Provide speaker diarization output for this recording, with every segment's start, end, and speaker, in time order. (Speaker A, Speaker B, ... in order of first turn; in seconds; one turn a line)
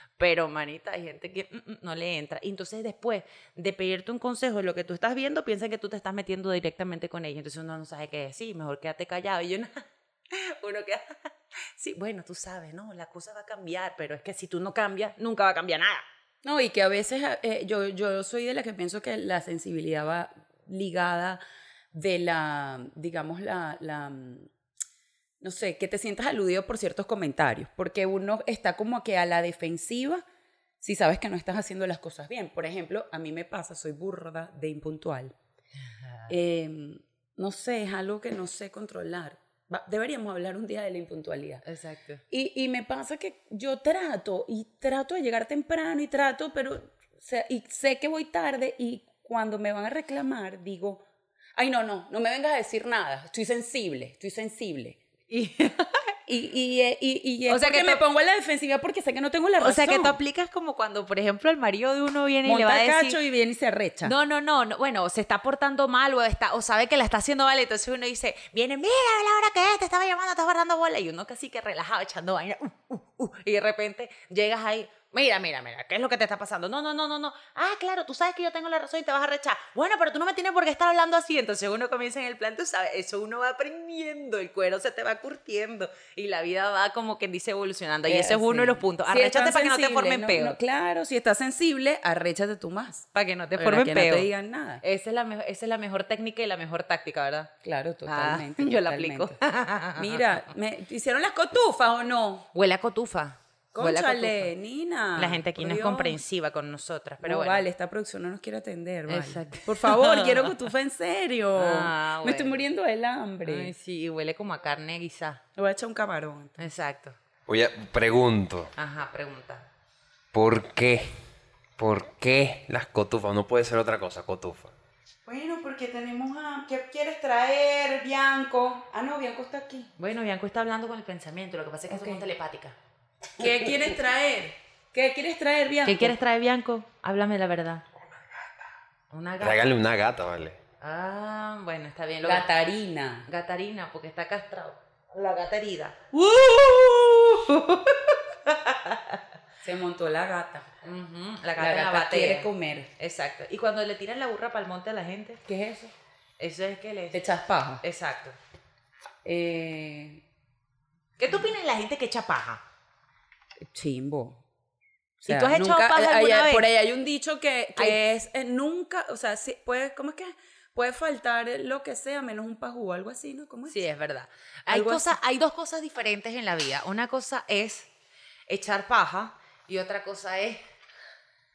Speaker A: 0.2-16.0
Speaker B: 16.4-21.4
Speaker B: 21.9-24.5
Speaker B: 25.4-30.2
Speaker B: 30.8-35.3
Speaker A: 35.8-36.3
Speaker B: 36.3-41.6
Speaker A: 41.6-42.2
Speaker B: 42.3-51.0
Speaker B: 51.5-55.0
Speaker A: 55.3-56.1
Speaker B: 56.3-60.2
Speaker A: 57.5-58.0
Speaker A: 59.6-63.2
Speaker B: 62.4-64.1
Speaker A: 64.0-90.6
Speaker B: 88.1-94.8
Speaker A: 93.1-94.3
Speaker A: 94.8-97.5
Speaker B: 97.6-99.4
Speaker A: 98.1-100.4
Speaker B: 100.0-102.5
Speaker A: 102.5-104.5
Speaker B: 103.7-106.2
Speaker A: 105.2-107.7
Speaker B: 107.2-113.7
Speaker A: 109.1-110.7
Speaker A: 111.5-112.6
Speaker A: 113.4-115.4
Speaker B: 115.5-116.6
Speaker A: 116.6-117.2
Speaker C: 117.5-118.7
Speaker A: 118.8-119.7
Speaker C: 120.3-121.1
Speaker C: 121.8-124.7
Speaker B: 125.2-129.9
Speaker A: 130.0-132.8
Speaker B: 131.9-132.2
Speaker B: 133.4-136.1
Speaker A: 133.4-134.1
Speaker A: 135.8-137.8
Speaker A: 139.1-139.7
Speaker C: 139.4-140.6
Speaker A: 140.8-142.5
Speaker B: 142.2-143.3
Speaker A: 143.3-149.2
Speaker B: 149.6-150.7
Speaker A: 150.8-155.4
Speaker B: 151.6-152.9
Speaker B: 155.4-155.9
Speaker A: 156.4-157.2
Speaker B: 157.1-157.8
Speaker A: 157.8-158.3
Speaker B: 159.2-160.2
Speaker A: 161.2-162.6
Speaker B: 163.7-164.4
Speaker A: 165.2-166.7
Speaker B: 165.2-173.8
Speaker A: 173.7-177.9
Speaker B: 174.7-175.1
Speaker A: 178.5-180.6